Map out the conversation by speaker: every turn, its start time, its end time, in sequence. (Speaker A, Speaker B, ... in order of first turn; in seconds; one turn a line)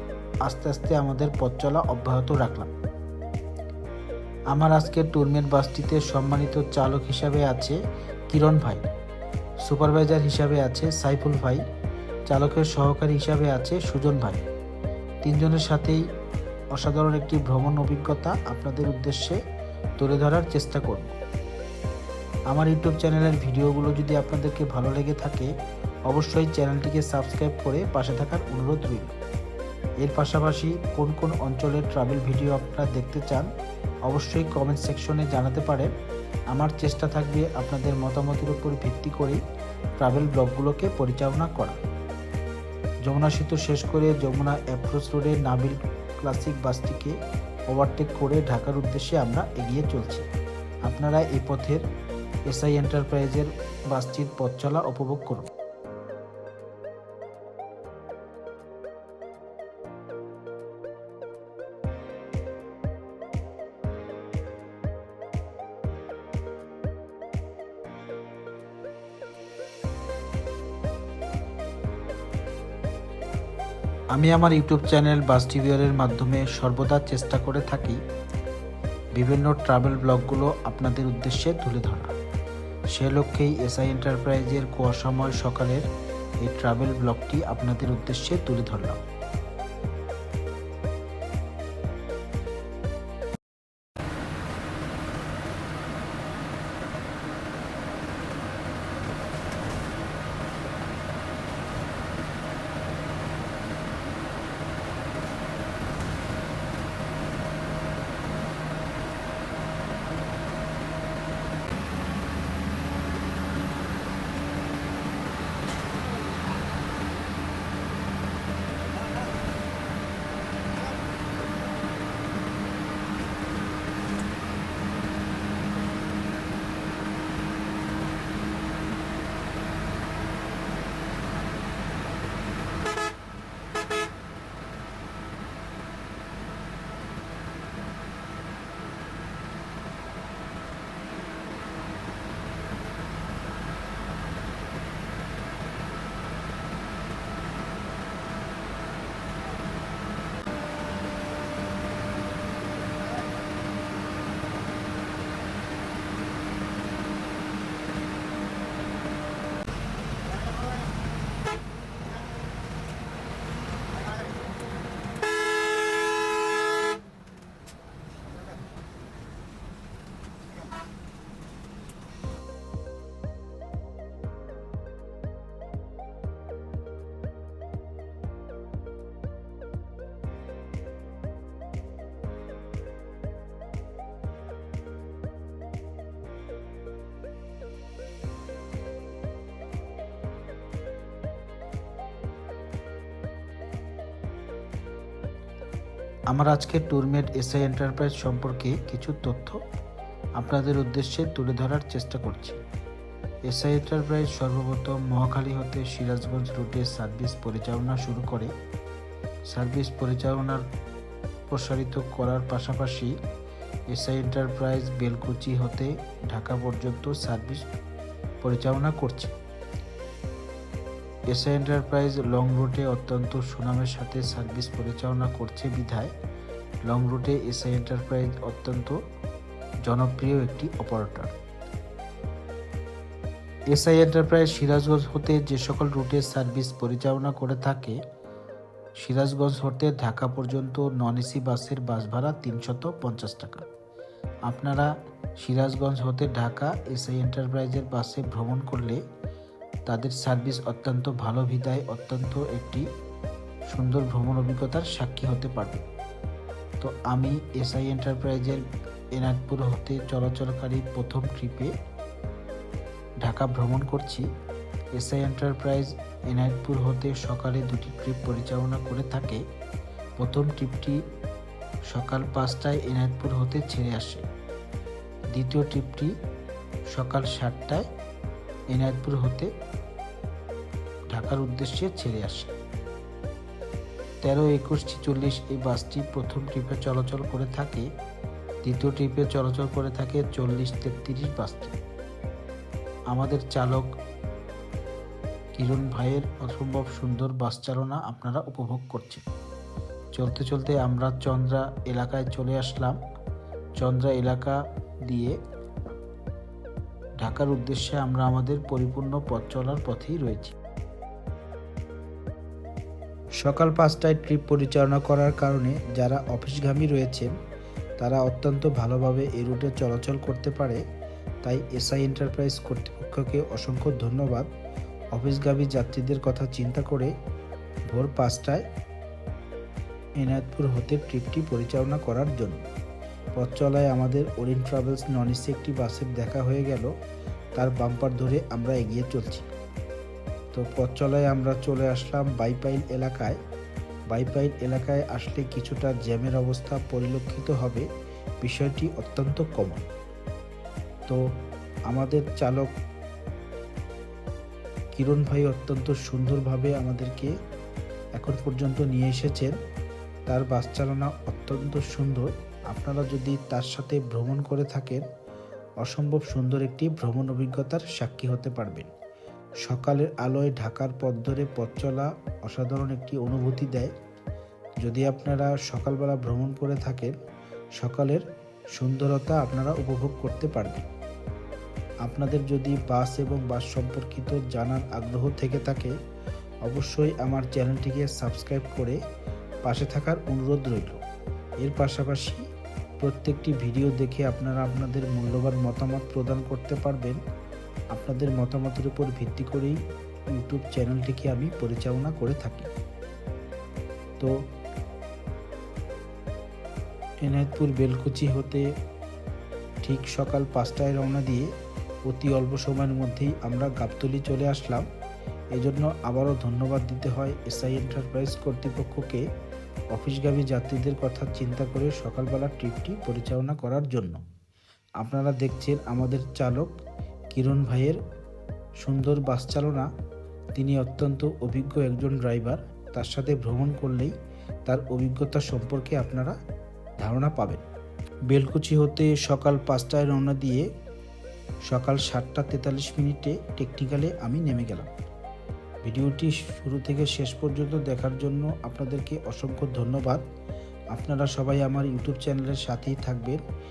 Speaker A: 0.4-2.7
Speaker A: 4.5-8.8
Speaker A: 9.7-11.6
Speaker A: 12.3-14.4
Speaker A: 15.2-16.1
Speaker A: 16.7-19.4
Speaker A: 20.0-21.2
Speaker A: 22.5-25.5
Speaker A: 26.1-29.1
Speaker A: 30.0-33.5
Speaker A: 34.1-35.9
Speaker A: 36.5-39.4
Speaker A: 40.0-41.8
Speaker A: 43.1-47.1
Speaker A: 47.7-50.3
Speaker A: 50.9-51.8
Speaker A: 52.5-55.5
Speaker A: 74.1-78.0
Speaker A: 79.2-82.1
Speaker A: 82.9-85.9
Speaker A: 86.4-89.0
Speaker A: 196.3-199.6
Speaker A: 200.4-202.6
Speaker A: 203.5-208.5
Speaker A: 209.5-210.6
Speaker A: 211.5-213.2
Speaker A: 213.9-217.7
Speaker A: 218.4-219.3
Speaker A: 221.3-226.1
Speaker A: 226.9-229.0
Speaker A: 229.8-231.3
Speaker A: 233.7-238.0
Speaker A: 239.0-243.7
Speaker A: 244.4-249.0
Speaker A: 249.9-252.9
Speaker A: 253.7-255.8
Speaker A: 256.8-261.7
Speaker A: 263.2-264.3
Speaker A: 264.9-269.4
Speaker A: 270.2-271.0
Speaker A: 271.9-274.2
Speaker A: 275.3-276.1
Speaker A: 276.9-277.9
Speaker A: 278.7-279.5
Speaker A: 281.1-282.5
Speaker A: 284.2-287.9
Speaker A: 288.6-291.8
Speaker A: 293.1-293.9
Speaker A: 295.6-299.2
Speaker A: 300.1-303.0
Speaker A: 303.8-305.4
Speaker A: 307.2-310.6
Speaker A: 313.4-317.3
Speaker A: 318.0-320.8
Speaker A: 321.4-324.5
Speaker A: 325.1-327.1
Speaker A: 327.9-328.6
Speaker A: 330.2-332.6
Speaker A: 333.4-336.9
Speaker A: 337.6-339.5
Speaker A: 340.5-343.4
Speaker A: 344.1-347.9
Speaker A: 348.4-349.9
Speaker A: 351.9-352.7
Speaker A: 354.9-357.3
Speaker A: 358.2-359.6
Speaker A: 360.3-365.0
Speaker A: 365.8-368.9
Speaker A: 369.6-373.9
Speaker A: 374.8-377.1
Speaker A: 377.8-380.9
Speaker A: 382.1-385.9
Speaker A: 386.6-389.0
Speaker A: 389.6-391.0
Speaker A: 391.6-392.4
Speaker A: 393.0-397.2
Speaker A: 397.9-399.8
Speaker A: 400.3-402.7
Speaker A: 407.2-408.7
Speaker A: 409.8-411.5
Speaker A: 412.1-414.9
Speaker A: 415.5-419.2
Speaker A: 419.9-424.2
Speaker A: 425.0-426.7
Speaker A: 427.3-428.0
Speaker A: 428.8-429.9
Speaker A: 430.6-434.1
Speaker A: 434.6-436.4
Speaker A: 437.0-437.6
Speaker A: 438.3-440.7
Speaker A: 441.7-444.9
Speaker A: 445.9-450.2
Speaker A: 450.9-453.4